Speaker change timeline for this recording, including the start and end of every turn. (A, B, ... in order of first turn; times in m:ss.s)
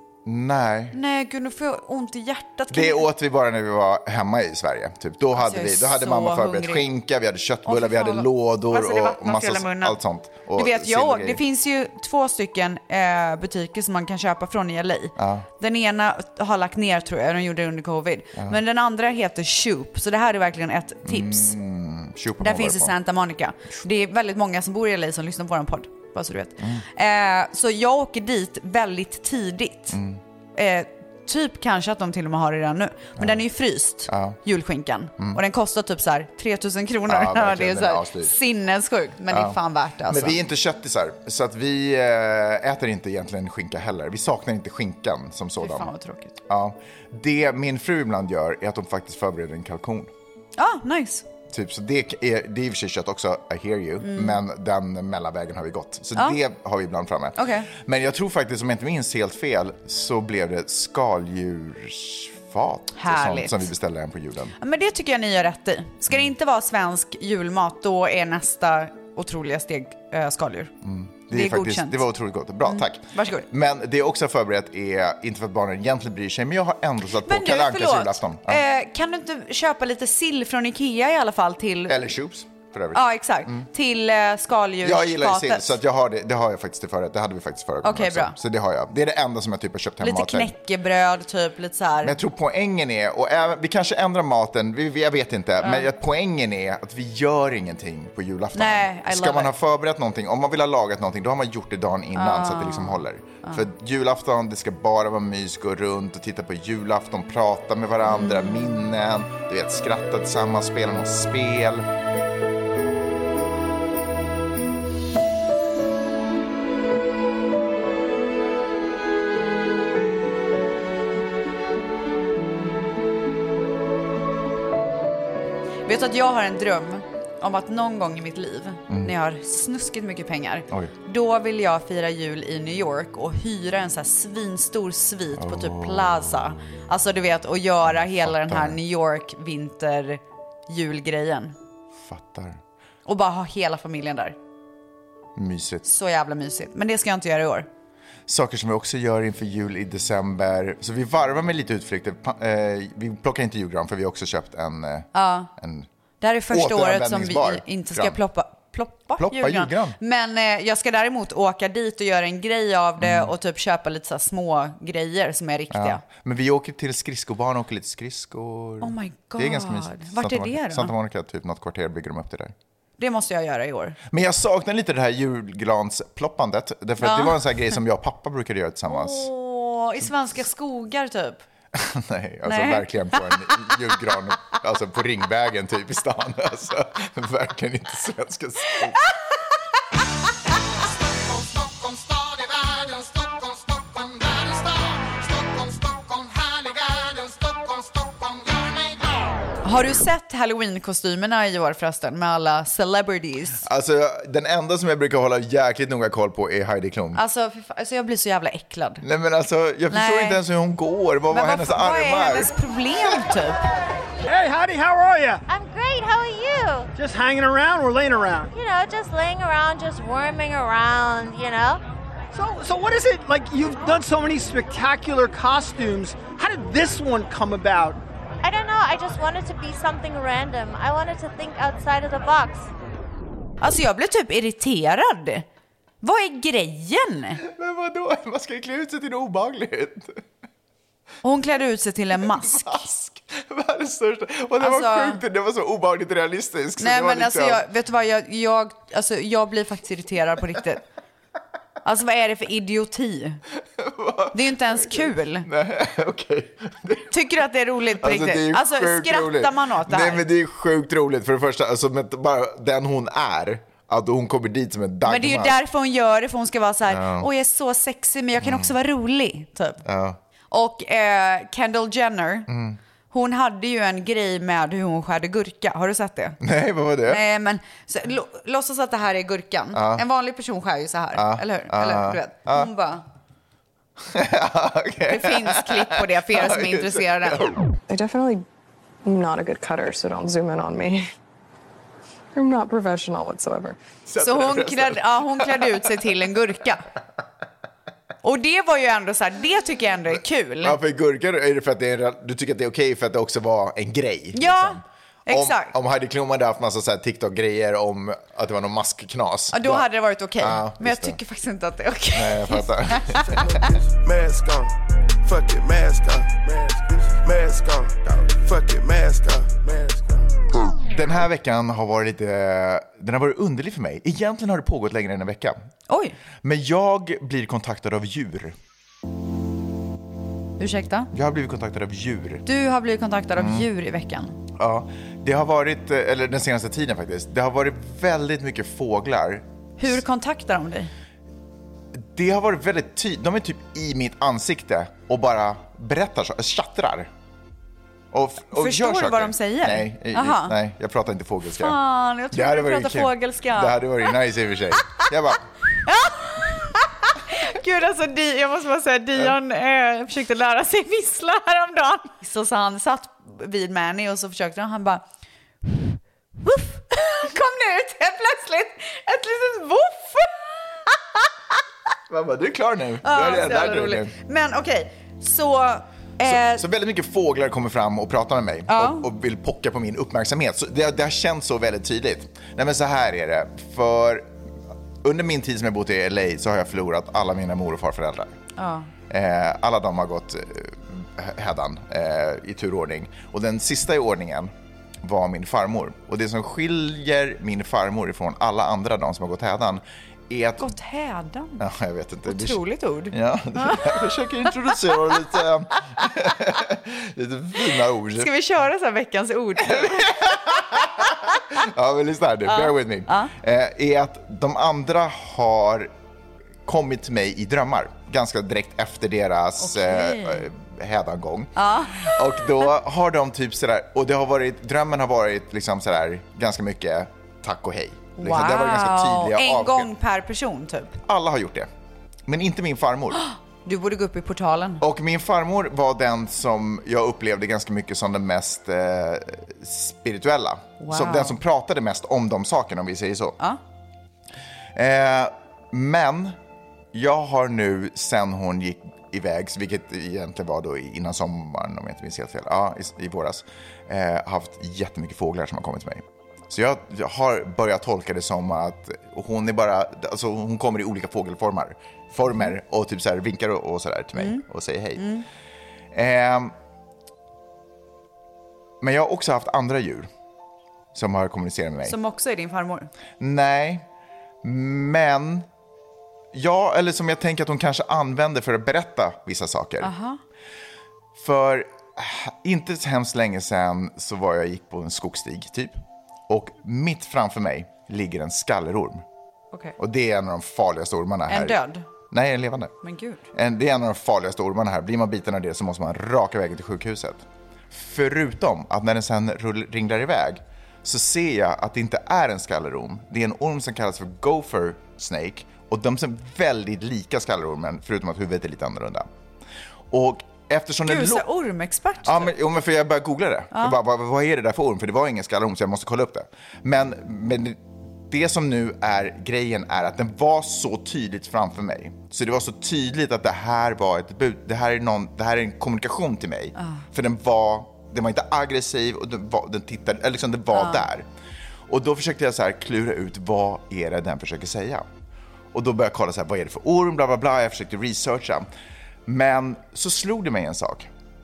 0:00.2-0:01.0 A
0:00.9-0:03.1 B
0:02.7-0:11.4 A
0:05.4-0:06.9 B
0:07.7-0:10.0 B
0:10.6-0:21.6 B
0:15.2-0:15.5 A
0:21.0-0:23.0 A
0:22.4-0:30.0 B
0:26.6-0:26.8 A
0:29.9-0:30.2 A
0:30.6-0:40.4 B
0:34.1-0:34.4 A
0:37.1-0:38.3 A
0:39.3-0:39.6 A
0:40.1-0:45.9 A
0:45.6-0:46.4 B
0:46.5-0:50.1 A
0:50.6-0:51.3 B
0:51.5-1:04.6 A
0:54.0-0:54.4 B
0:57.4-0:57.7 B
1:03.0-1:03.7 B
1:04.6-1:10.7 B
1:10.8-1:18.6 A
1:11.3-1:12.0 B
1:12.6-1:13.5 B
1:17.2-1:22.0 B
1:21.9-1:23.7 A
1:22.9-1:25.7 B
1:24.8-1:30.5 A
1:27.8-1:28.4 B
1:30.0-1:32.2 B
1:32.0-1:51.9 A
1:35.6-1:35.9 B
1:38.6-1:39.6 B
1:42.2-1:43.6 B
1:48.1-1:48.8 B
2:05.8-2:21.6 B
2:15.4-2:16.2 A
2:17.8-2:18.8 A
2:22.0-2:22.6 A
2:23.1-2:24.4 B
2:25.4-2:25.9 A
2:25.8-2:27.7 B
2:28.3-2:35.9 A
2:35.1-2:35.5 B
2:36.2-2:46.0 B
2:36.5-2:38.2 A
2:39.2-2:40.0 A
2:43.0-2:43.3 A
2:45.7-2:52.5 A
2:48.8-2:50.9 B
2:53.0-2:54.0 B
2:54.1-2:59.3 A
2:57.0-2:57.4 B
2:58.9-3:01.4 B
3:01.7-3:09.0 A
3:02.5-3:03.7 B
3:11.9-3:13.2 A
3:14.0-3:14.6 A
3:15.8-3:17.5 A
3:19.6-3:23.6 B
3:23.6-3:27.2 A
3:27.2-3:29.0 B
3:29.0-3:32.6 A
3:29.9-3:30.4 B
3:31.3-3:33.6 B
3:34.3-3:35.4 C
3:35.5-3:36.9 D
3:37.0-3:38.5 C
3:38.5-3:41.8 D
3:42.3-3:48.0 C
3:48.4-3:52.7 D
3:53.6-3:55.5 B
3:56.0-3:57.4 B
3:57.4-4:00.2 A
4:01.2-4:02.9 B
4:02.2-4:07.6 A
4:04.6-4:05.2 B
4:06.8-4:10.8 B
4:11.8-4:13.4 B
4:13.8-4:17.1 A
4:14.3-4:15.5 B
4:17.1-4:20.3 B
4:18.0-4:25.6 A
4:25.0-4:29.8 B
4:26.9-4:27.3 A
4:28.4-4:28.7 A
4:29.8-4:30.2 A
4:30.5-4:32.5 B
4:32.5-4:32.8 A
4:33.1-4:36.4 B
4:36.4-4:37.2 A
4:37.1-4:43.0 B
4:39.7-4:40.0 A
4:41.1-4:42.7 A
4:44.1-4:47.6 A
4:45.1-4:47.5 B
4:47.9-4:48.4 E
4:49.0-4:51.1 E
4:52.4-4:53.8 E
4:54.1-4:56.0 A
4:54.2-4:56.9 B
4:58.2-5:00.8 B
5:00.6-5:09.9 A
5:04.3-5:05.7 B
5:09.5-5:13.7 B
5:10.4-5:11.2 A
5:12.1-5:13.6 A
5:13.6-5:20.3 F
5:20.9-5:25.6 A
5:25.9-5:26.2 B
5:26.4-5:28.6 A
5:30.6-5:31.1 B
5:31.1-5:32.4 A
5:32.4-5:34.4 B
5:33.4-5:33.7 A
5:34.6-5:40.0 A
5:39.8-5:40.9 B
5:41.9-5:47.1 A
5:48.1-5:51.8 A
5:48.5-5:50.6 B
5:51.5-5:54.1 B
5:52.3-5:55.4 A
5:55.8-6:05.0 B
6:06.4-6:11.2 B
6:12.1-6:14.1 A
6:13.0-6:16.6 B
6:16.2-6:24.3 A
6:18.7-6:19.1 B
6:25.0-6:28.3 A
6:28.6-6:28.9 B
6:29.1-6:34.5 A
6:35.0-6:40.7 A
6:40.6-6:41.6 B
6:41.6-6:42.6 A
6:42.3-6:44.1 B
6:43.1-6:48.3 A
6:44.7-6:45.2 B
6:48.2-6:50.4 B
6:49.6-6:55.9 A
6:52.5-6:53.3 B
6:56.7-7:09.9 A
6:59.6-7:00.5 B
7:01.6-7:02.4 B
7:08.2-7:11.0 B
7:11.1-7:11.7 A
7:12.3-7:13.2 A
7:13.2-7:14.8 B
7:14.8-7:23.4 A
7:20.8-7:21.4 B
7:24.8-7:26.4 A
7:26.9-7:45.0 A
7:44.2-7:44.4 B
7:45.0-7:45.2 B
7:45.9-7:46.5 A
7:48.8-7:50.1 A
7:50.9-7:52.0 A
7:51.8-7:52.9 B
7:53.2-7:53.9 A
7:54.4-7:55.5 A
7:56.3-7:59.9 A
7:59.8-8:00.2 B
8:01.2-8:09.0 A
8:09.8-8:11.6 A
8:11.3-8:11.9 B
8:12.1-8:12.7 A
8:12.8-8:13.2 B
8:13.3-8:29.1 A
8:29.9-8:31.2 A
8:30.9-8:32.3 B
8:32.0-8:51.1 A
8:46.6-8:46.8 B
8:50.5-8:50.8 B
8:51.7-8:54.9 A
8:55.5-8:58.5 A
8:59.1-9:00.9 A